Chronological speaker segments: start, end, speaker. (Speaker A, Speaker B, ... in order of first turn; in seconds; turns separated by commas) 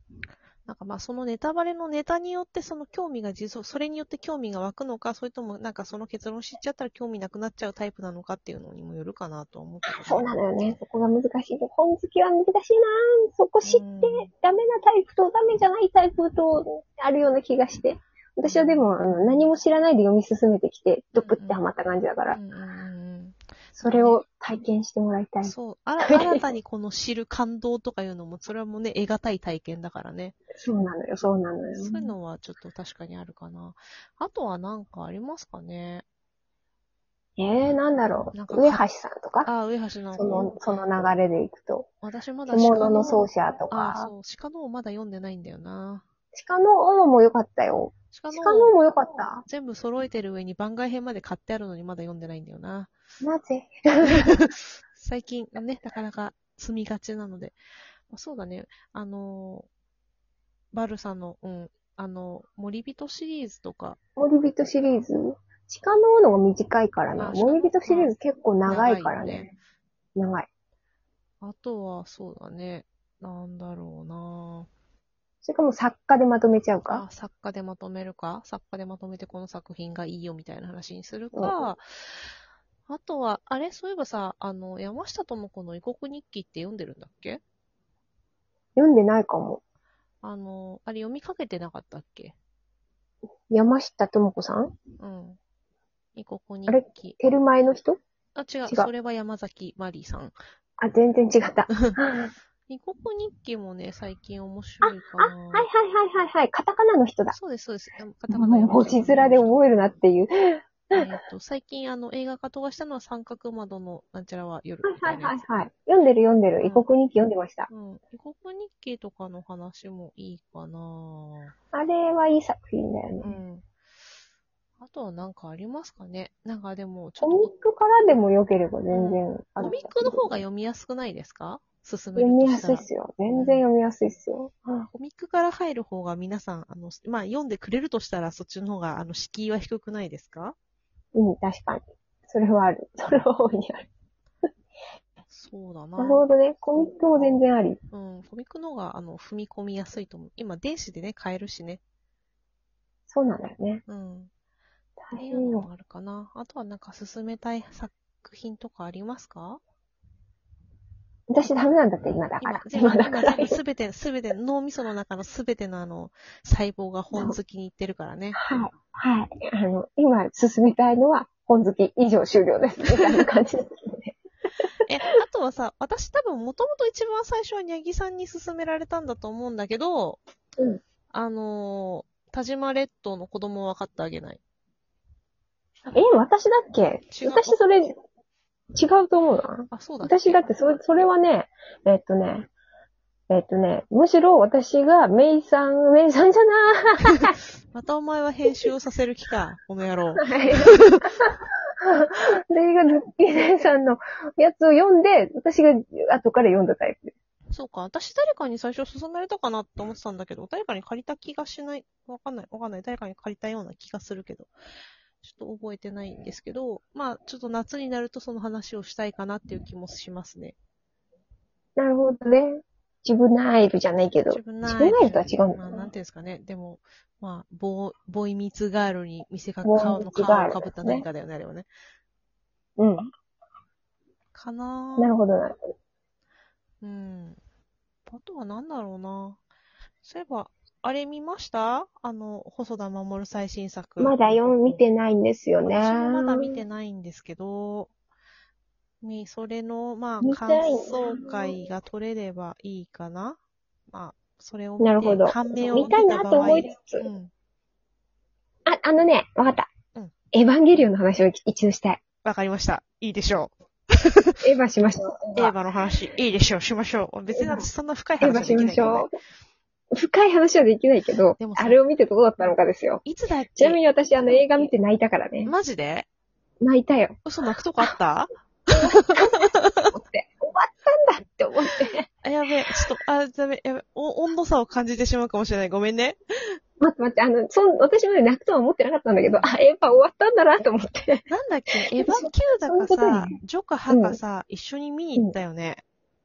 Speaker A: 0.7-10.8, Speaker B: 9.8-22.4, Speaker A: 13.6-14.3, Speaker A: 18.4-18.9, Speaker A: 21.2-21.6, Speaker A: 22.3-24.2, Speaker B: 23.8-25.5, Speaker A: 25.4-30.4, Speaker B: 26.0-26.5, Speaker B: 30.6-32.1, Speaker A: 31.7-36.0, Speaker B: 37.4-39.5, Speaker A: 38.3-38.8, Speaker A: 39.5-40.8, Speaker B: 40.2-41.9, Speaker A: 42.0-46.0, Speaker B: 42.5-44.1, Speaker B: 46.3-49.5, Speaker A: 48.1-48.7, Speaker A: 49.5-52.9, Speaker B: 53.2-54.4, Speaker A: 54.1-57.6, Speaker A: 58.1-59.7, Speaker A: 60.7-64.0, Speaker B: 64.2-69.5, Speaker A: 67.2-68.2, Speaker A: 68.7-69.5, Speaker B: 70.2-70.5, Speaker A: 71.4-74.7, Speaker B: 75.4-77.0, Speaker A: 76.9-82.3, Speaker A: 82.9-87.4, Speaker B: 88.8-89.6, Speaker A: 90.2-92.4, Speaker B: 93.5-94.8, Speaker A: 95.0-95.4, Speaker A: 96.2-97.2, Speaker B: 96.7-98.0, Speaker A: 98.4-100.3, Speaker B: 100.8-102.3, Speaker A: 101.7-102.0, Speaker A: 102.7-105.7, Speaker B: 104.8-107.4, Speaker A: 107.3-109.5, Speaker B: 108.3-111.0, Speaker A: 110.9-115.7, Speaker B: 114.8-117.7, Speaker A: 116.6-116.9, Speaker A: 117.7-121.5, Speaker B: 121.7-123.4, Speaker A: 123.2-123.6, Speaker A: 124.8-127.5, Speaker B: 127.2-130.3, Speaker A: 128.9-133.7, Speaker B: 132.2-134.9, Speaker A: 134.9-140.6, Speaker B: 141.2-143.9, Speaker A: 145.3-146.2, Speaker B: 146.0-147.8, Speaker A: 147.9-151.8, Speaker B: 153.1-153.8, Speaker A: 153.9-154.3, Speaker B: 155.0-155.7, Speaker A: 155.1-159.6, Speaker B: 161.3-163.6, Speaker A: 162.4-168.4, Speaker B: 167.1-167.4, Speaker B: 168.4-174.2, Speaker A: 173.0-173.2, Speaker A: 174.9-180.2, Speaker A: 181.1-184.4, Speaker B: 185.9-188.0, Speaker A: 187.1-187.6, Speaker B: 188.8-192.5, Speaker A: 189.7-190.4, Speaker B: 193.3-197.3, Speaker A: 197.7-201.0, Speaker B: 200.2-207.1, Speaker A: 207.5-214.5, Speaker A: 215.2-220.6, Speaker B: 221.8-225.9, Speaker A: 224.3-231.7, Speaker B: 229.6-231.1, Speaker B: 232.8-233.1, Speaker A: 234.3-235.1, Speaker B: 235.0-235.6, Speaker A: 236.8-237.4, Speaker A: 238.1-239.4, Speaker A: 240.0-244.8, Speaker B: 244.0-246.6, Speaker A: 245.6-247.9, Speaker A: 249.0-253.4, Speaker B: 250.2-251.6, Speaker A: 253.9-257.3, Speaker B: 254.8-257.1, Speaker B: 258.7-259.7, Speaker B: 260.3-262.0, Speaker A: 262.2-264.4, Speaker B: 264.4-265.5, Speaker A: 265.4-269.1, Speaker B: 267.3-267.7, Speaker B: 268.2-269.1, Speaker B: 269.9-273.0, Speaker A: 271.4-271.8, Speaker A: 273.0-273.8, Speaker B: 273.6-275.5, Speaker A: 275.4-276.1, Speaker B: 276.6-277.2, Speaker A: 277.3-279.6, Speaker B: 278.7-282.1, Speaker A: 282.2-286.2, Speaker B: 286.8-291.3, Speaker A: 291.3-295.8, Speaker B: 292.0-293.4, Speaker B: 293.9-294.2